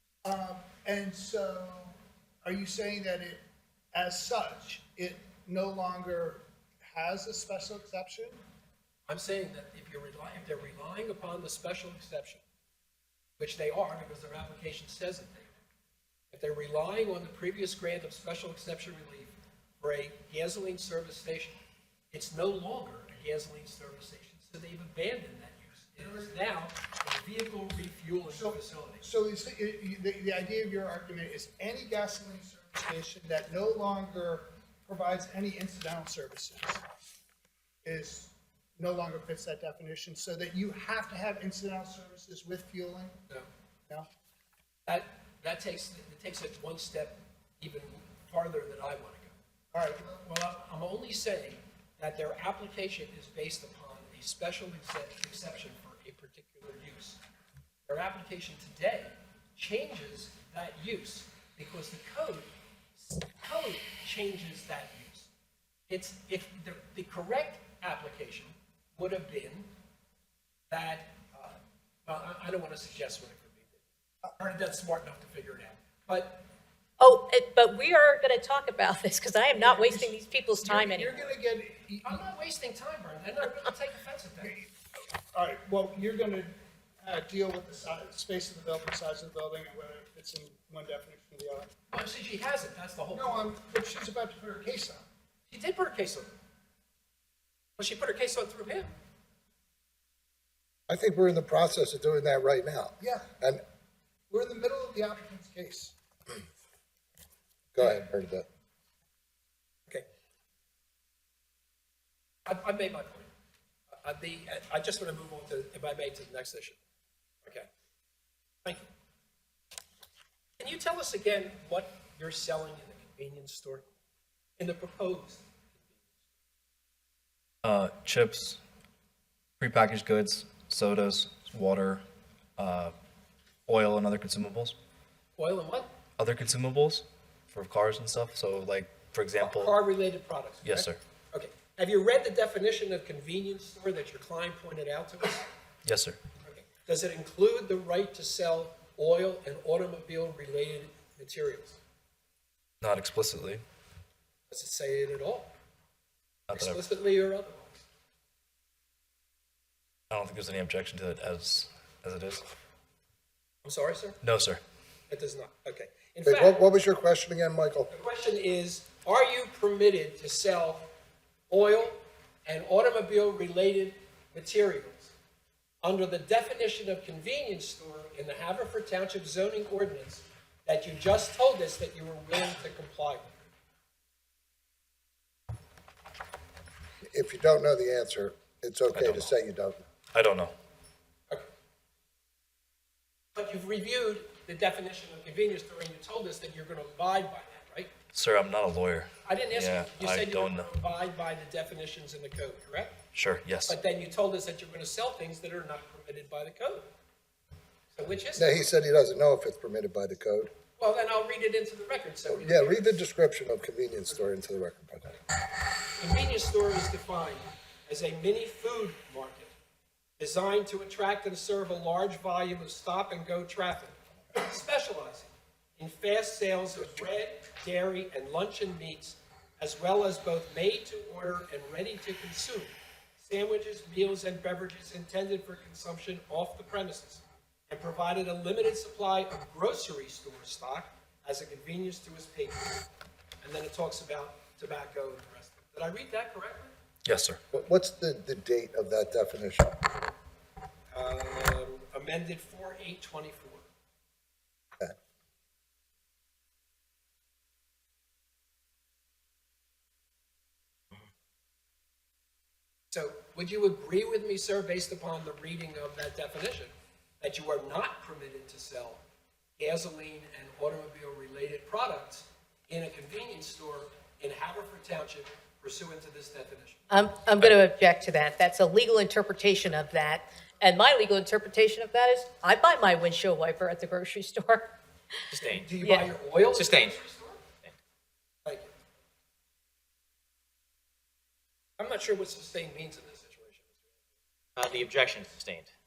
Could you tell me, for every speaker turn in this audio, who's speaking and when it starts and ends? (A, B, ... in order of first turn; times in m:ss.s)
0:00.2-0:03.4 A
0:03.9-0:08.4 A
0:09.1-0:12.4 B
0:13.4-0:15.6 B
0:16.3-0:21.6 B
0:22.1-0:29.0 B
0:26.0-0:26.3 A
0:28.3-0:36.8 A
0:37.8-0:43.2 A
0:44.9-0:49.4 B
0:49.7-0:50.3 A
0:50.2-0:57.2 B
0:57.9-1:05.3 B
1:05.9-1:09.7 B
1:10.7-1:13.8 B
1:14.4-1:16.4 B
1:17.0-1:21.4 C
1:19.5-1:22.2 A
1:22.0-1:24.6 B
1:24.4-1:24.7 A
1:25.3-1:31.7 A
1:31.9-1:33.5 B
1:33.1-1:35.0 A
1:35.5-1:36.4 B
1:37.8-1:39.0 B
1:40.9-1:43.6 D
1:43.0-1:43.3 A
1:44.3-1:45.9 A
1:47.7-1:48.5 D
1:52.5-1:53.3 B
1:54.0-1:56.8 B
2:00.6-2:03.8 B
2:04.6-2:06.1 B
2:07.6-2:08.6 E
2:09.6-2:12.0 E
2:12.6-2:12.9 E
2:13.7-2:14.8 E
2:15.4-2:15.9 B
2:16.2-2:19.8 E
2:19.4-2:25.5 B
2:20.6-2:21.0 E
2:25.8-2:26.2 E
2:26.4-2:31.8 B
2:32.8-2:33.6 E
2:34.5-2:35.5 B
2:36.5-2:36.8 E
2:36.5-2:37.8 B
2:40.1-2:42.4 E
2:43.6-2:44.2 B
2:44.2-2:44.6 E
2:45.1-2:46.7 B
2:46.2-2:47.9 D
2:47.9-2:50.9 B
2:51.5-2:55.1 B
2:55.8-3:03.4 B
3:07.0-3:09.8 D
3:08.9-3:09.3 E
3:10.1-3:10.6 E
3:13.4-3:17.9 B
3:18.1-3:20.7 E
3:19.2-3:23.0 B
3:23.1-3:23.8 E
3:23.7-3:26.9 B
3:27.9-3:28.7 B
3:28.4-3:30.5 D
3:30.8-3:33.0 B
3:32.3-3:35.2 D
3:36.0-3:39.5 B
3:40.2-4:02.9 B
4:03.4-4:06.7 B
4:07.0-4:07.4 E
4:07.5-4:09.8 D
4:10.9-4:13.7 B
4:22.9-4:29.0 B
4:29.6-4:36.8 B
4:36.9-4:44.7 C
4:45.3-4:45.7 F
4:45.4-4:47.4 B
4:45.8-4:46.1 C
4:46.6-4:47.0 F
4:48.4-4:48.7 B
4:51.8-4:53.9 B
4:54.6-4:55.7 F